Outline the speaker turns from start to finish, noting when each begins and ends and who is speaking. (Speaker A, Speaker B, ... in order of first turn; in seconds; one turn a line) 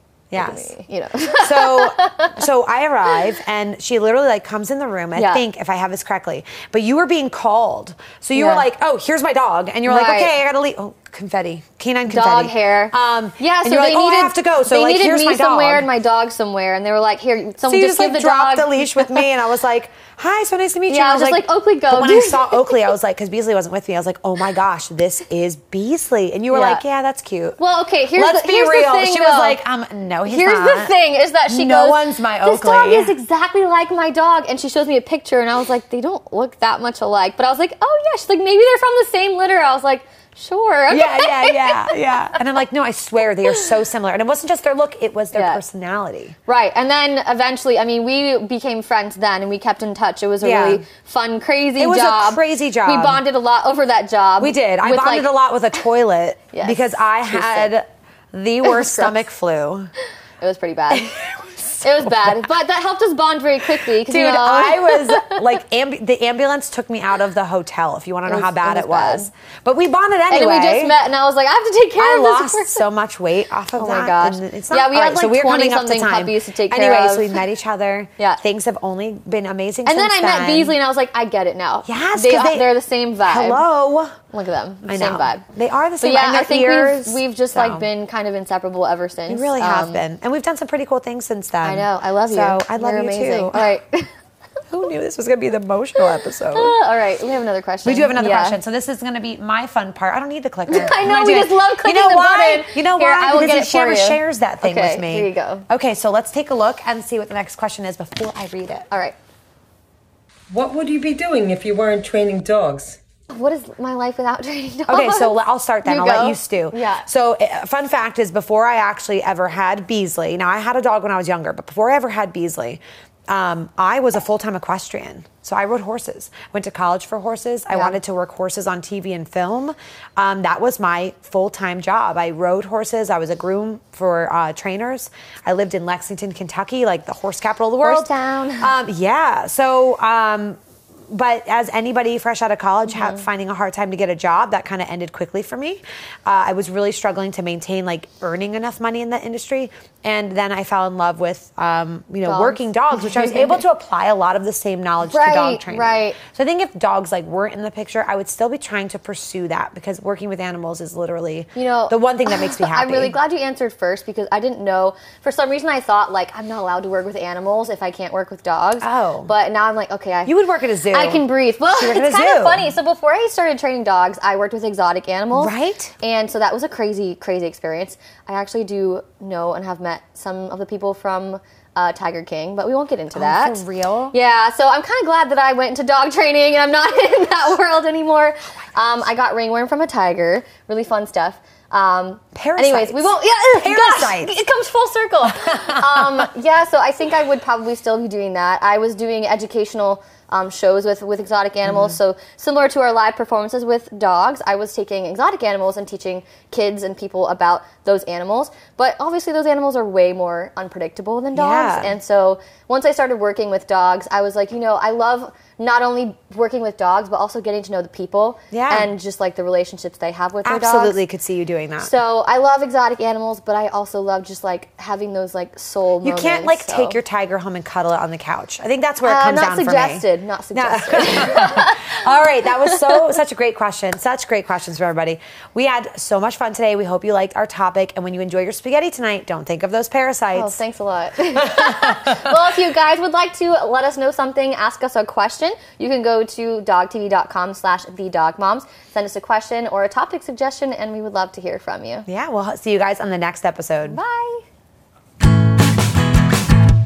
Speaker A: 0.3-0.7
Speaker B: 0.3-2.4
Speaker A: 1.3-15.9
Speaker B: 5.2-5.4
Speaker B: 8.3-8.7
Speaker B: 9.9-10.3
Speaker B: 12.1-19.3
Speaker A: 17.6-27.6
Speaker B: 20.9-22.9
Speaker B: 26.5-26.8
Speaker B: 27.6-29.6
Speaker A: 28.1-33.2
Speaker B: 30.3-42.4
Speaker A: 40.9-46.4
Speaker B: 45.3-45.6
Speaker B: 46.5-55.3
Speaker A: 50.4-50.9
Speaker A: 51.8-53.2
Speaker A: 54.4-59.9
Speaker B: 56.5-57.7
Speaker B: 58.6-59.2
Speaker B: 60.4-61.2
Speaker A: 60.9-62.4
Speaker B: 61.8-65.4
Speaker A: 63.8-71.0
Speaker B: 68.3-69.3
Speaker B: 70.3-72.8
Speaker A: 72.0-80.8
Speaker B: 73.8-77.4
Speaker B: 79.8-83.6
Speaker A: 81.8-82.7
Speaker A: 83.3-84.2
Speaker B: 84.3-85.4
Speaker A: 84.9-87.9
Speaker B: 86.0-90.0
Speaker A: 89.3-93.7
Speaker B: 91.6-94.1
Speaker A: 94.7-96.8
Speaker B: 96.5-98.6
Speaker A: 97.8-108.9
Speaker B: 100.7-105.7
Speaker B: 108.9-109.2
Speaker C: 110.5-113.0
Speaker B: 113.3-117.1
Speaker A: 114.9-163.2
Speaker B: 127.7-128.0
Speaker B: 137.8-138.7
Speaker B: 142.9-143.3
Speaker B: 152.2-153.6
Speaker B: 155.0-156.2
Speaker B: 161.6-170.4
Speaker A: 168.8-169.3
Speaker A: 170.3-172.7
Speaker B: 170.9-221.0
Speaker A: 175.3-175.9
Speaker A: 183.1-184.2
Speaker A: 192.3-194.3
Speaker A: 195.4-196.2
Speaker A: 201.7-202.0
Speaker A: 211.3-211.9
Speaker A: 218.5-218.9
Speaker A: 220.4-221.9
Speaker B: 221.8-227.0
Speaker A: 226.0-240.6
Speaker B: 229.0-233.0
Speaker B: 240.3-252.1
Speaker A: 241.3-242.4
Speaker A: 252.1-254.0
Speaker B: 253.8-254.4